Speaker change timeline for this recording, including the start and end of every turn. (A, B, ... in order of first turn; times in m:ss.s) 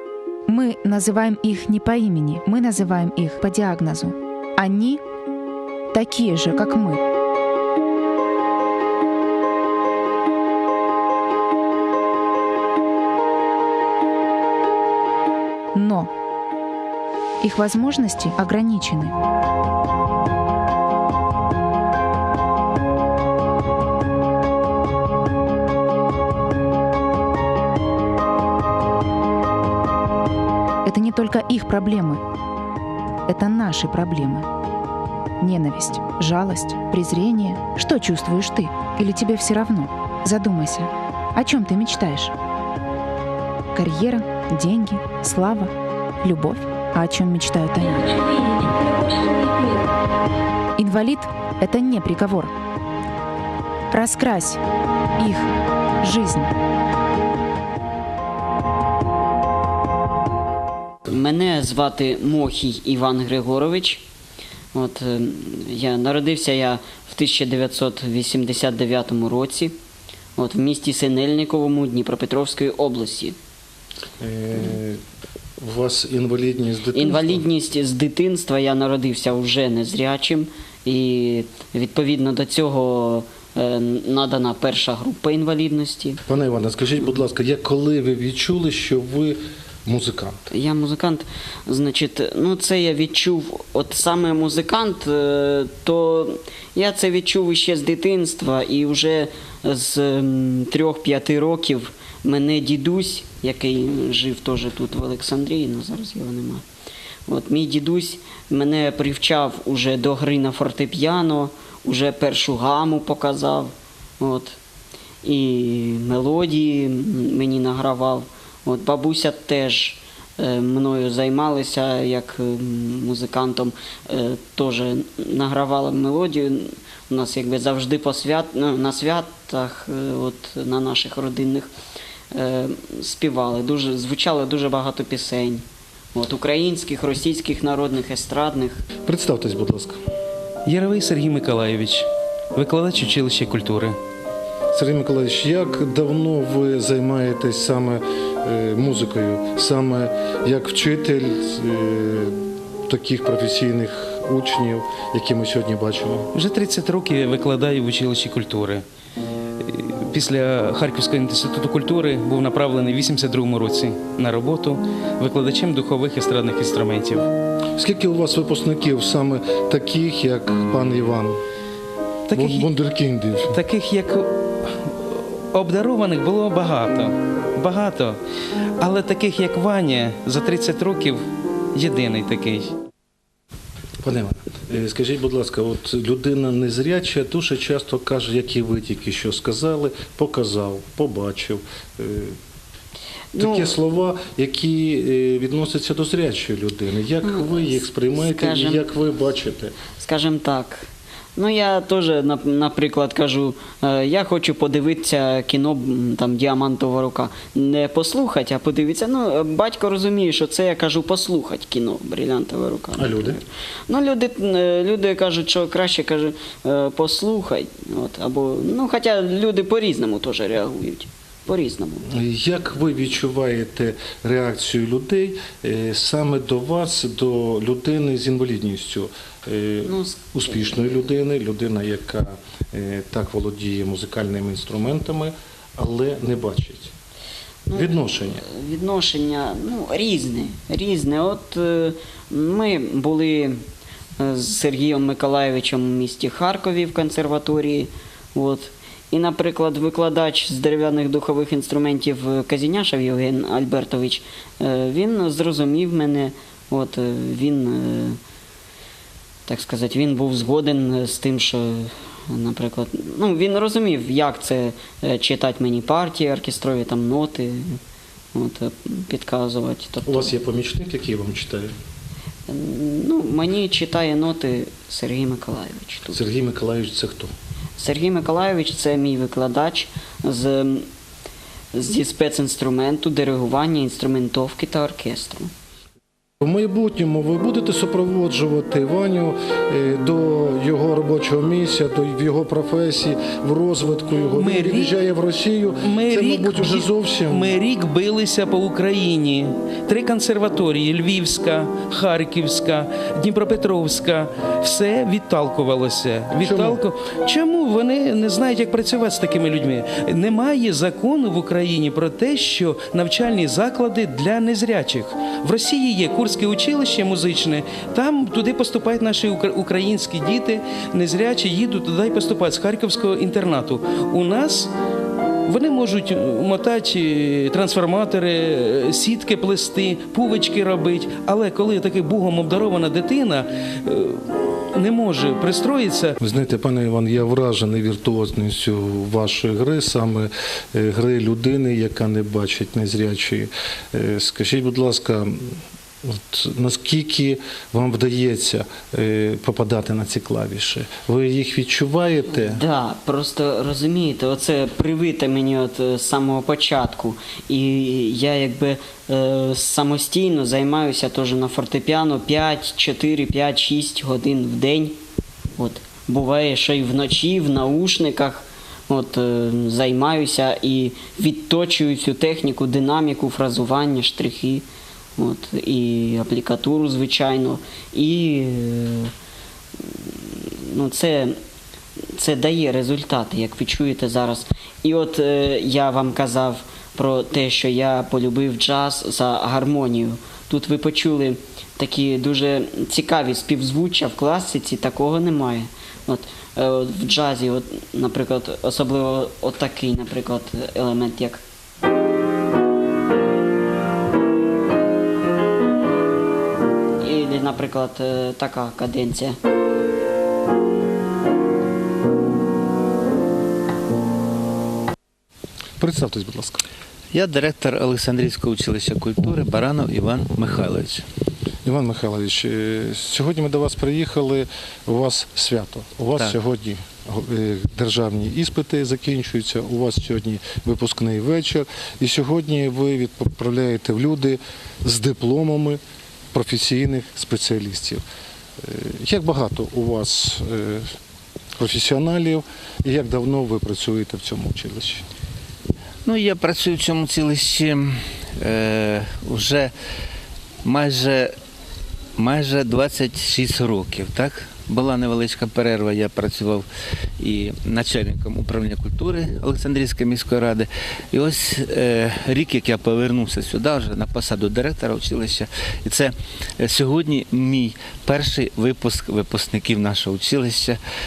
0:00.5-0:05.0 A
0:05.9-0:07.0 A
0:15.7-0:16.1 A
0:17.4-0:19.2 A
0:30.8-0:32.2 A
0:33.3-0:34.5 A
0:35.4-0:42.3 A
0:43.7-0:45.7 A
0:46.2-0:49.8 A
0:50.8-0:52.5 A
0:53.9-0:54.6 A
0:55.2-0:55.5 A
0:56.0-0:56.5 A
1:01.1-1:04.0 B
1:04.7-1:09.8 B
1:10.4-1:13.4 B
1:14.2-1:15.0 C
1:15.6-1:17.4 C
1:16.9-1:26.2 B
1:26.2-1:30.5 C
1:30.5-1:46.6 B
1:47.3-1:54.6 B
1:55.2-2:11.7 B
2:12.3-2:18.8 B
2:19.0-2:20.0 C
2:20.7-2:24.0 D
2:24.7-2:36.3 C
2:36.3-2:38.8 D
2:39.6-2:47.3 D
2:47.8-2:51.4 C
2:52.3-2:52.7 D
2:52.3-2:53.6 C
2:53.5-2:58.2 D
2:58.8-3:01.2 D
3:01.7-3:02.7 D
3:04.0-3:12.4 C
3:13.3-3:13.7 B
3:13.4-3:19.8 C
3:17.2-3:17.6 B
3:18.2-3:18.9 B
3:20.0-3:42.1 B
3:33.0-3:33.4 C
3:42.1-3:56.9 C
3:49.8-3:50.2 B
3:57.7-4:03.6 B
3:57.7-3:58.4 C
4:04.2-4:18.2 B
4:19.5-4:27.8 B
4:28.3-4:30.3 B
4:30.1-4:31.7 C
4:32.5-4:36.2 B
4:36.1-4:37.3 C
4:37.8-4:40.9 B
4:41.7-4:45.5 B
4:46.4-4:57.5 C
4:54.4-4:55.0 D
4:55.8-5:24.7 D
5:06.4-5:06.8 C
5:25.5-5:36.2 D
5:36.2-5:52.6 C
5:52.3-6:05.0 B
6:05.6-6:14.6 B
6:15.2-6:19.1 B
6:19.8-6:21.4 B
6:22.1-6:41.4 B
6:47.0-6:49.4 B
6:55.8-6:56.6 C
6:57.1-7:01.0 E
7:01.6-7:15.8 C
7:16.3-7:18.0 C
7:18.6-7:20.9 C
7:21.6-7:25.1 C
7:26.0-7:29.7 E
7:30.6-7:31.3 E
7:32.2-7:36.7 E
7:37.2-7:50.8 E